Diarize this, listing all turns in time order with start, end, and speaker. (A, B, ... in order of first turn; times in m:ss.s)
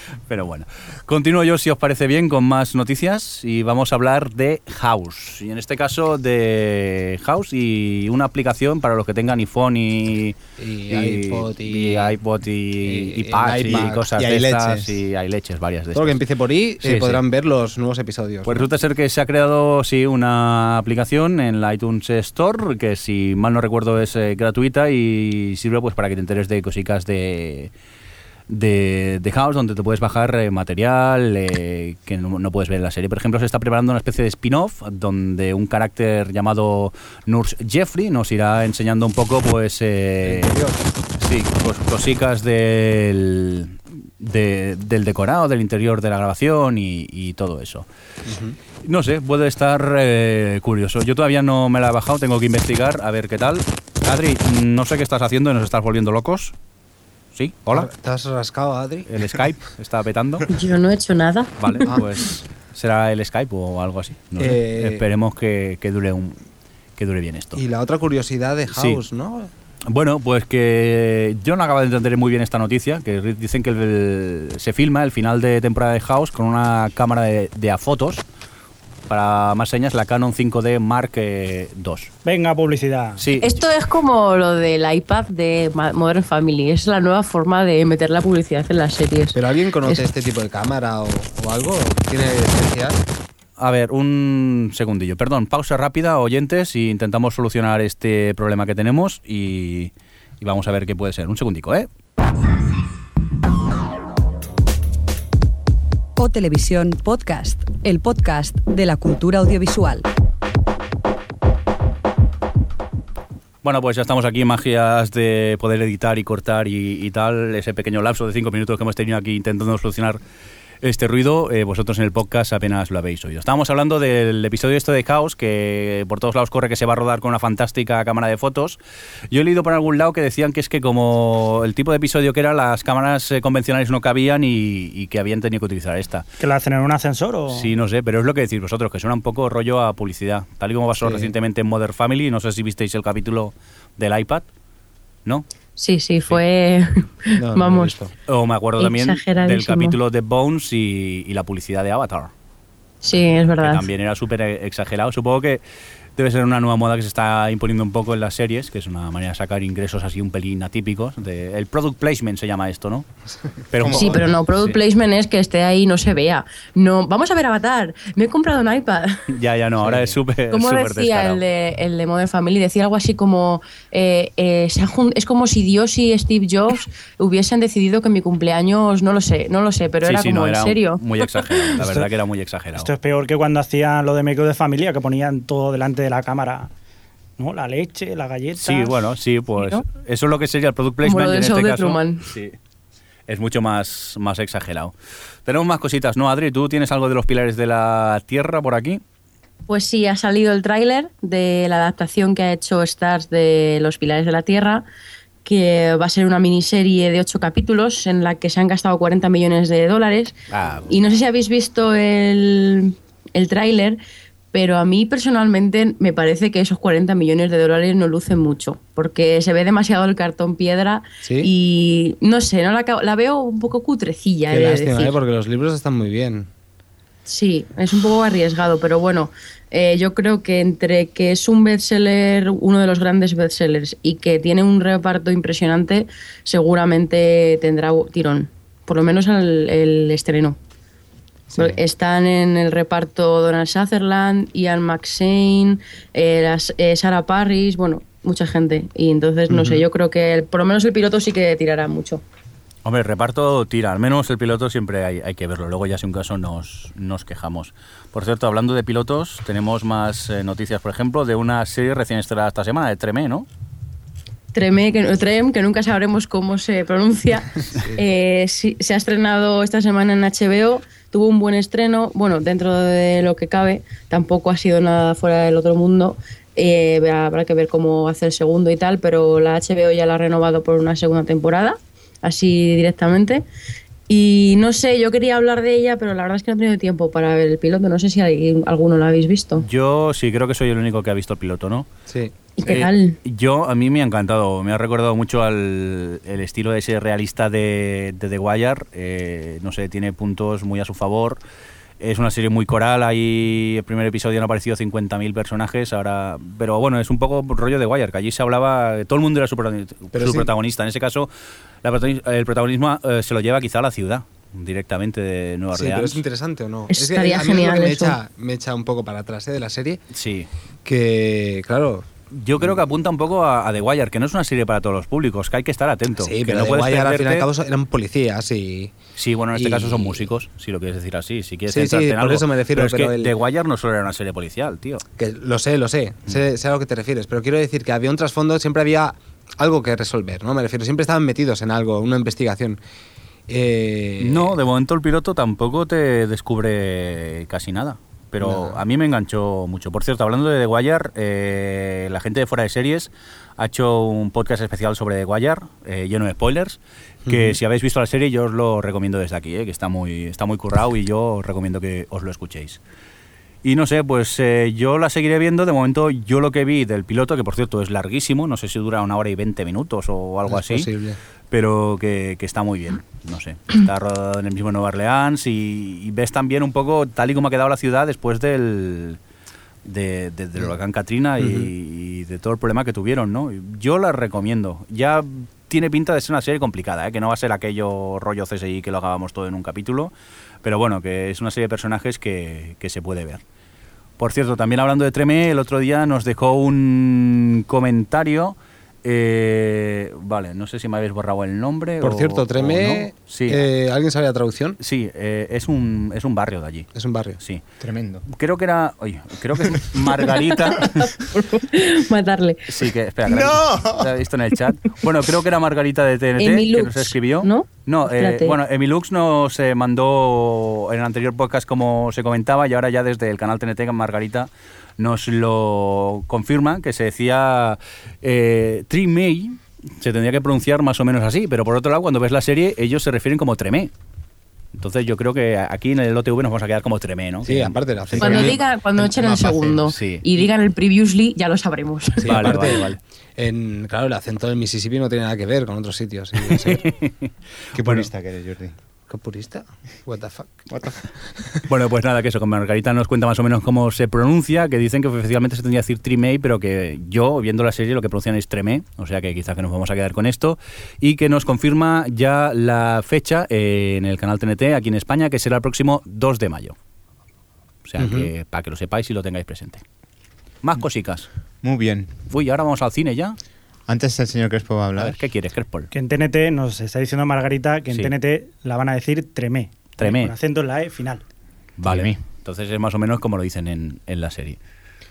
0:00.3-0:10.4 A
0:10.6-0:12.1 B
0:10.9-0:16.2 A
0:12.8-0:14.0 B
0:14.0-0:14.9 C
0:15.9-0:18.7 B
0:16.8-0:17.2 A
0:18.4-0:27.7 A
0:28.5-0:40.6 A
0:40.2-0:40.8 B
0:41.2-0:47.8 A
0:48.2-0:48.6 B
0:48.8-0:56.5 A
0:57.3-0:57.9 A
0:57.7-0:59.4 B
0:59.1-1:00.5 A
1:00.5-1:01.8 D
1:01.6-1:06.4 A
1:04.4-1:05.0 B
1:07.0-1:07.6 A
1:07.6-1:09.5 B
1:08.7-1:09.0 A
1:09.9-1:18.2 A
1:19.1-1:22.1 A
1:22.2-1:23.2 E
1:23.2-1:23.6 A
1:23.4-1:30.0 D
1:29.3-1:33.0 B
1:33.6-1:41.9 A
1:46.2-1:50.1 F
1:53.6-2:00.2 A
2:00.8-2:08.8 A
2:09.3-2:16.2 A
2:16.4-2:17.7 E
2:17.5-2:24.4 A
2:21.0-2:21.3 B
2:25.8-2:28.0 D
2:27.4-2:28.1 B
2:28.3-2:32.3 A
2:28.8-2:30.0 D
2:33.0-2:33.8 D
2:33.6-2:35.6 A
2:36.2-2:43.0 A
2:43.7-2:44.8 A
2:43.8-2:44.2 C
2:43.9-2:49.2 D
2:49.3-2:51.4 A
2:49.8-2:50.2 B
2:50.5-3:01.0 D
3:00.0-3:02.9 A
3:01.8-3:02.1 E
3:02.7-3:06.7 E
3:07.4-3:09.0 E
3:08.6-3:12.6 A
3:11.0-3:12.3 D
3:13.3-3:14.9 A
3:15.4-3:19.0 A
3:19.7-3:24.8 D
3:25.4-3:30.4 D
3:30.5-3:30.9 A
3:30.9-3:34.0 D
3:34.5-3:45.2 D
3:41.2-3:41.5 B
3:44.5-3:46.5 B
3:47.2-4:00.6 D
4:01.5-4:01.8 B
4:01.6-4:12.2 D
4:09.5-4:09.8 B
4:12.8-4:23.5 A
4:24.5-4:43.4 D
4:44.1-4:49.6 D
4:49.6-4:51.9 A
4:52.6-4:53.2 D
4:52.6-5:01.4 A
5:02.0-5:11.3 A
5:10.1-5:10.5 B
5:11.8-5:16.2 A
5:15.7-5:20.0 B
5:16.9-5:18.2 D
5:20.1-5:20.5 A
5:20.8-5:22.0 B
5:22.3-5:27.5 A
5:26.2-5:28.9 B
5:29.2-5:35.0 A
5:29.5-5:30.3 B
5:31.7-5:33.3 B
5:35.2-5:42.8 B
5:43.5-5:44.5 B
5:44.2-6:02.8 A
5:48.4-5:48.8 B
5:57.2-5:57.6 B
6:03.6-6:10.9 A
6:10.5-6:11.2 B
6:11.5-6:19.2 A
6:19.8-6:33.4 A
6:21.4-6:21.7 B
6:34.2-6:43.6 A
6:42.0-6:44.8 B
6:44.8-6:47.6 A
6:46.9-6:47.4 B
6:47.8-6:48.2 C
6:48.3-6:51.1 A
6:50.7-6:52.6 D
6:52.7-7:13.9 A
6:53.2-6:54.1 C
6:56.4-6:58.6 D
7:14.7-7:18.5 A
7:17.4-7:19.8 B
7:18.2-7:22.7 D
7:19.8-7:20.4 A
7:22.2-7:26.8 B
7:22.2-7:23.0 A
7:26.4-7:27.1 A
7:27.7-7:28.1 A
7:27.7-7:28.7 C
7:29.1-7:31.0 B
7:30.7-7:31.0 C
7:31.7-7:46.7 A
7:47.8-7:49.8 A
7:48.0-7:48.3 B
7:50.6-7:51.3 A
7:51.6-7:52.1 C
7:52.3-7:53.4 A
7:53.9-7:55.2 C
7:55.0-7:55.9 A
7:55.9-8:01.2 E
8:00.0-8:00.3 A
8:01.8-8:04.6 A